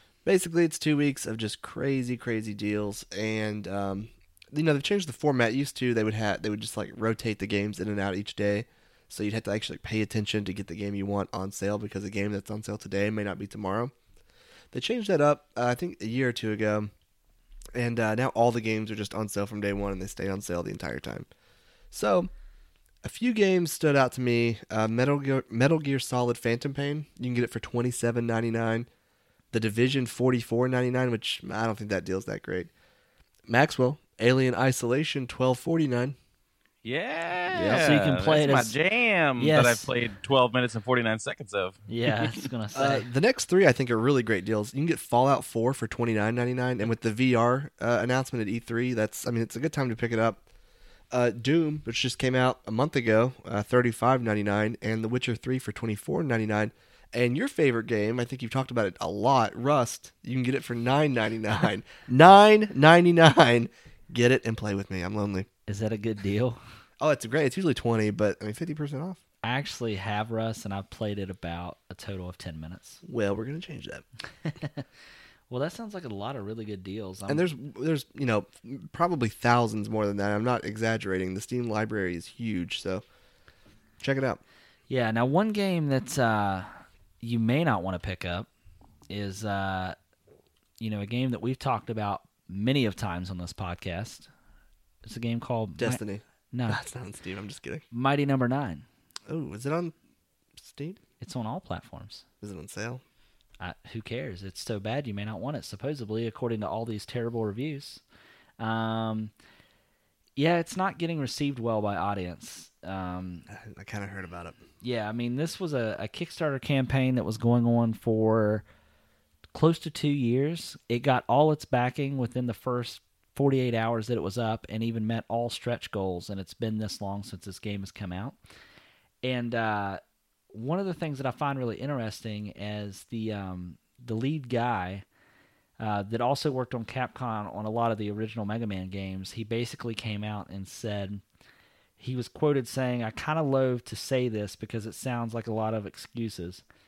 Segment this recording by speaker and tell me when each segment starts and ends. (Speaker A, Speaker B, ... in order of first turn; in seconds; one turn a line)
Speaker A: 0.2-13.9
Speaker A: 14.7-16.9
Speaker A: 17.7-21.3
Speaker A: 21.9-22.3
Speaker A: 23.0-28.9
Speaker A: 29.5-32.7
Speaker A: 33.5-36.1
Speaker B: 36.8-42.4
Speaker A: 37.5-37.9
Speaker C: 37.6-38.7
Speaker C: 39.4-39.9
Speaker C: 41.9-43.1
Speaker A: 42.7-50.4
Speaker A: 51.1-65.5
Speaker C: 65.7-66.6
Speaker A: 67.0-69.2
Speaker C: 69.4-73.0
Speaker A: 73.0-74.0
Speaker C: 74.4-74.8
Speaker C: 75.5-77.5
Speaker A: 77.3-83.0
Speaker A: 84.0-84.4
Speaker C: 84.9-86.7
Speaker C: 87.2-88.5
Speaker C: 89.1-90.0
Speaker C: 90.8-94.3
Speaker C: 95.0-96.8
Speaker A: 95.8-97.8
Speaker C: 97.9-98.8
Speaker A: 99.3-99.9
Speaker A: 100.6-101.0
Speaker C: 101.2-102.2
Speaker A: 102.4-103.0
Speaker C: 103.6-108.0
Speaker C: 108.6-109.3
Speaker C: 110.4-113.5
Speaker A: 113.5-114.6
Speaker C: 114.8-118.6
Speaker C: 119.5-128.4
Speaker C: 129.2-130.0
Speaker C: 130.5-135.0
Speaker C: 135.8-141.2
Speaker C: 142.0-146.6